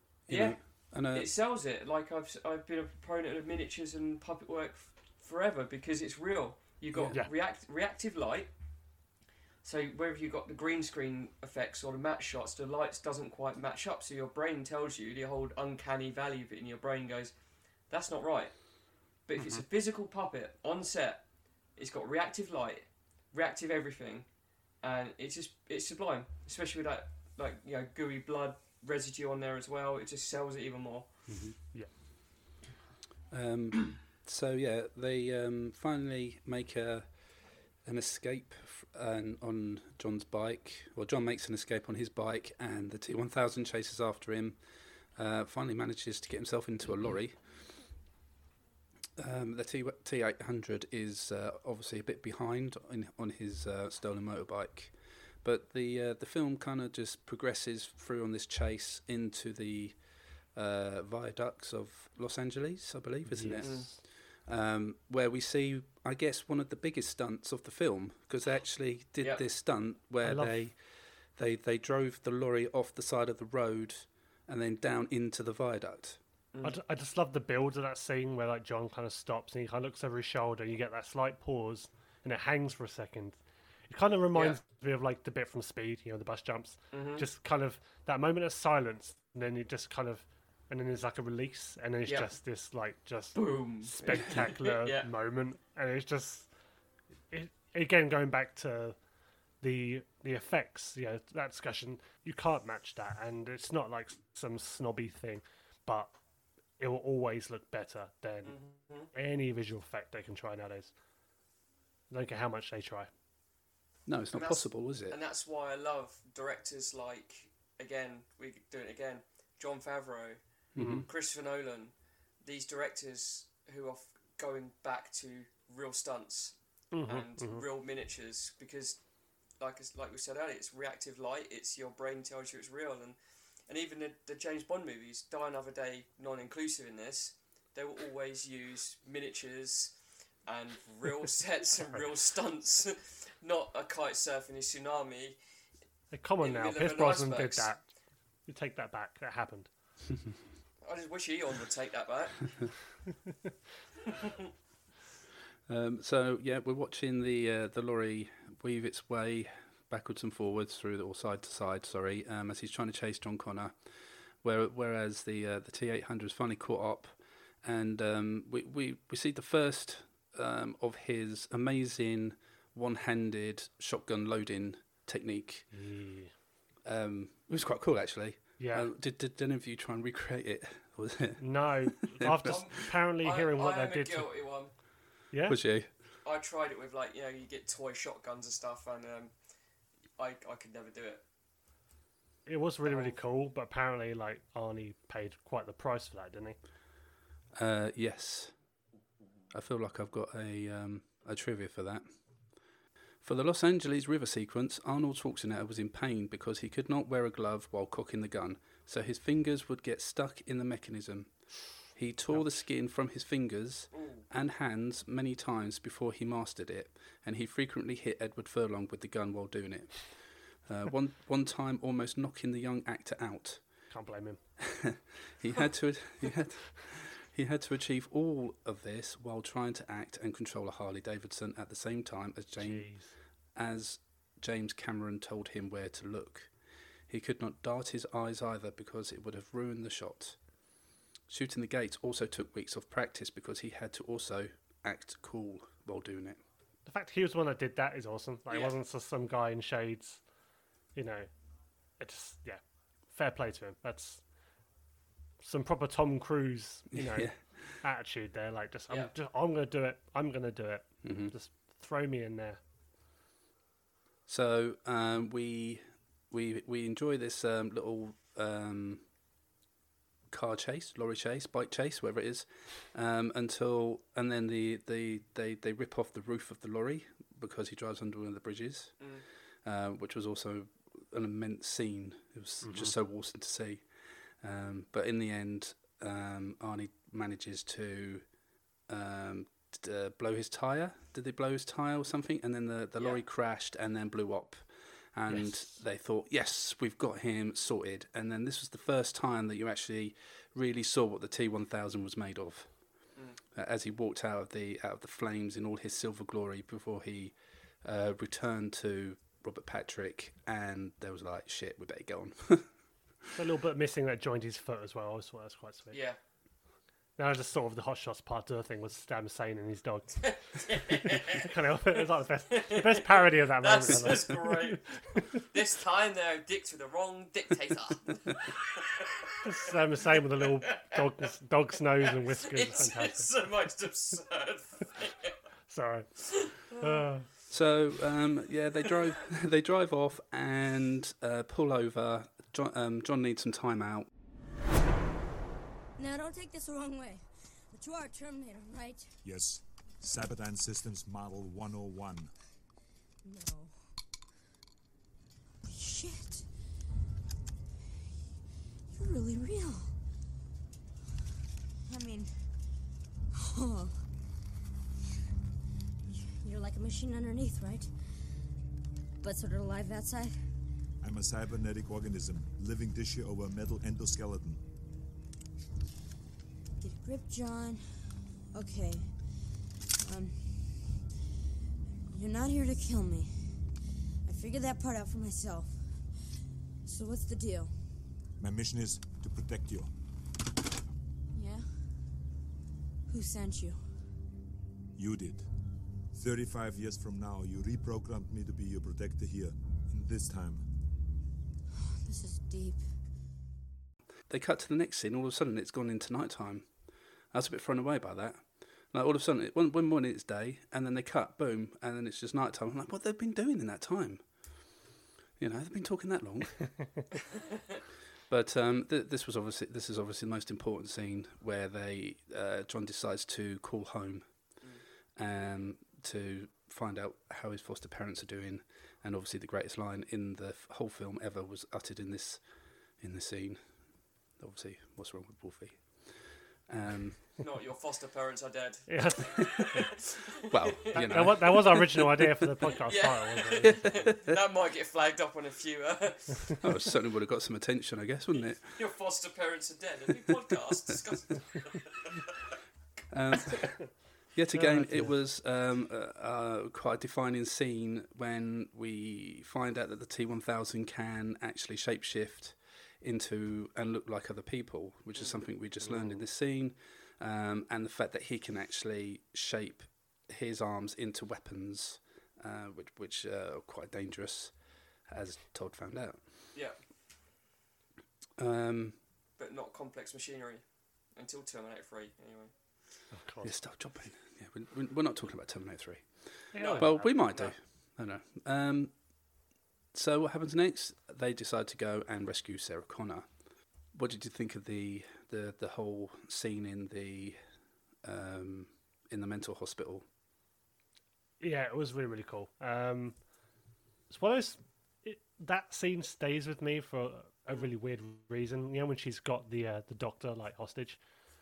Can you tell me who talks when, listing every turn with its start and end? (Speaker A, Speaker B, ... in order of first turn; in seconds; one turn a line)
Speaker A: 0.3-1.3
Speaker B: 0.3-8.5
Speaker C: 7.0-7.3
Speaker B: 9.6-17.3
Speaker B: 17.9-18.6
Speaker B: 19.2-24.3
Speaker C: 19.4-19.6
Speaker B: 24.8-31.2
Speaker C: 31.3-31.9
Speaker A: 33.3-44.6
Speaker A: 45.1-47.8
Speaker A: 49.2-76.2
Speaker C: 63.2-64.0
Speaker B: 63.6-63.9
Speaker C: 70.2-70.7
Speaker C: 76.6-96.5
Speaker B: 84.3-84.6
Speaker B: 86.9-87.2
Speaker B: 93.3-95.1
Speaker C: 97.3-99.0
Speaker C: 99.6-106.1
Speaker C: 106.8-108.6
Speaker B: 108.4-109.1
Speaker C: 109.1-110.9
Speaker C: 112.1-113.1
Speaker A: 114.0-115.2
Speaker B: 114.3-120.4
Speaker A: 120.7-121.1
Speaker C: 120.8-121.0
Speaker B: 121.0-129.0
Speaker C: 126.9-127.6
Speaker B: 129.6-133.2
Speaker B: 133.7-145.4
Speaker C: 146.1-147.9
Speaker B: 146.4-147.8
Speaker C: 148.5-149.7
Speaker B: 150.8-152.7
Speaker B: 154.1-154.3
Speaker A: 155.7-163.8
Speaker A: 164.4-175.7
Speaker C: 175.7-176.3
Speaker A: 176.8-182.6
Speaker C: 178.6-178.9
Speaker C: 181.4-184.3
Speaker B: 182.4-184.7
Speaker C: 185.3-185.6
Speaker A: 185.4-185.9
Speaker B: 186.2-189.3
Speaker B: 190.2-191.2
Speaker C: 192.4-196.6
Speaker B: 192.8-193.2
Speaker A: 197.6-198.5
Speaker A: 199.5-202.1
Speaker A: 203.2-223.7
Speaker B: 213.9-214.2
Speaker C: 223.9-224.4
Speaker A: 224.6-233.0
Speaker C: 232.6-233.1
Speaker A: 233.5-236.5
Speaker A: 237.1-240.4
Speaker A: 241.3-246.4
Speaker C: 246.8-250.2
Speaker C: 250.9-251.3
Speaker C: 252.0-254.2
Speaker C: 255.4-262.6
Speaker A: 256.9-257.8
Speaker A: 261.0-261.3
Speaker A: 264.3-269.1
Speaker A: 270.3-279.1
Speaker B: 279.0-279.2
Speaker A: 279.6-283.9
Speaker C: 282.6-282.9
Speaker A: 284.4-288.2
Speaker A: 288.9-312.7
Speaker C: 295.2-295.8
Speaker C: 313.3-316.0
Speaker B: 315.9-316.2
Speaker C: 317.2-320.3
Speaker B: 320.2-321.5
Speaker C: 321.0-325.2
Speaker B: 322.5-329.4
Speaker C: 329.4-333.3
Speaker B: 330.7-331.0
Speaker B: 332.1-335.3
Speaker C: 335.7-337.3
Speaker B: 336.4-337.1
Speaker A: 337.5-344.1
Speaker D: 346.0-349.1
Speaker E: 349.2-352.3
Speaker D: 353.2-353.9
Speaker D: 355.7-356.3
Speaker D: 358.9-359.9
Speaker D: 361.9-362.4
Speaker D: 363.4-363.9
Speaker D: 366.1-367.9
Speaker D: 369.2-370.4
Speaker E: 371.0-374.6
Speaker D: 376.8-379.3
Speaker D: 380.0-380.9
Speaker D: 382.1-383.7
Speaker D: 384.2-386.0
Speaker D: 386.8-387.8
Speaker E: 388.4-389.9
Speaker D: 391.3-391.8
Speaker D: 393.1-393.9
Speaker E: 394.9-395.5
Speaker E: 396.1-400.6
Speaker D: 401.9-402.8
Speaker A: 404.3-406.8
Speaker A: 407.3-414.8
Speaker A: 415.4-417.0
Speaker A: 418.3-424.6
Speaker A: 425.2-432.4
Speaker A: 433.0-437.3
Speaker B: 437.4-441.3
Speaker C: 438.9-439.9
Speaker A: 440.5-442.1
Speaker C: 440.9-443.9
Speaker B: 442.9-446.6
Speaker A: 446.6-448.8
Speaker B: 448.7-452.3
Speaker A: 453.1-476.2
Speaker C: 454.5-455.1
Speaker B: 465.1-465.4
Speaker C: 465.8-466.2
Speaker A: 478.4-479.0
Speaker B: 479.4-482.5
Speaker C: 483.1-483.5
Speaker A: 483.4-489.0
Speaker C: 486.5-487.1
Speaker B: 486.6-487.5
Speaker A: 489.9-493.3
Speaker A: 493.9-497.4
Speaker A: 498.0-500.1
Speaker C: 501.4-503.2
Speaker C: 504.1-511.0